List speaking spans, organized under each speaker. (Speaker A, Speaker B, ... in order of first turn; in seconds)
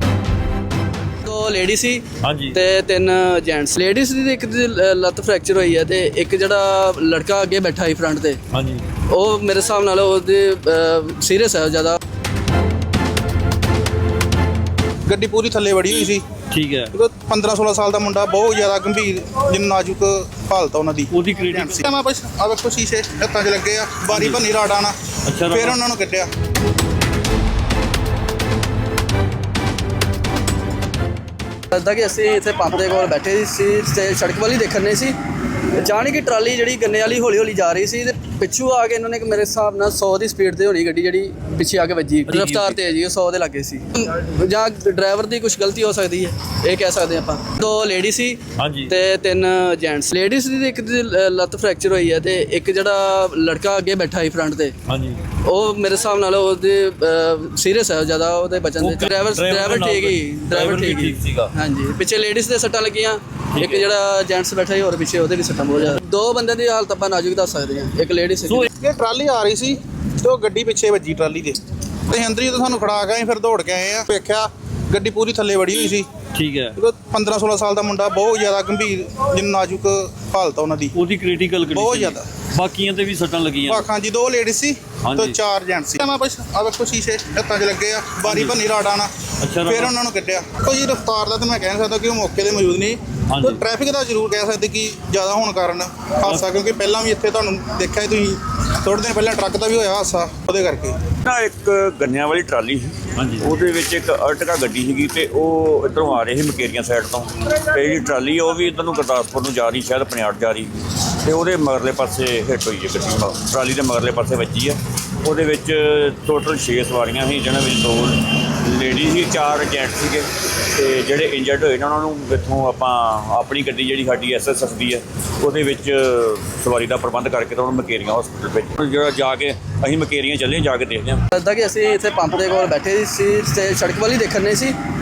Speaker A: 1.2-8.4, 9.1-12.0, 31.7-35.1, 35.7-54.7, 55.4-68.7, 131.3-134.8
Speaker B: 2.2-2.6, 8.5-8.8, 16.5-16.9, 21.1-21.8, 24.1-24.4, 25.2-25.8, 42.3-42.8, 48.6-48.9, 54.9-55.2, 58.8-61.5, 63.5-63.9, 76.3-76.8, 80.9-83.8, 85.0-85.3, 88.3-88.5, 89.4-89.9, 93.3-93.6, 103.1-103.5
Speaker C: 15.1-16.2, 16.9-24.9, 25.5-26.3, 68.7-76.1, 76.8-80.9, 81.7-82.3, 83.7-89.1, 89.7-101.0
Speaker D: 101.2-110.7, 111.2-131.2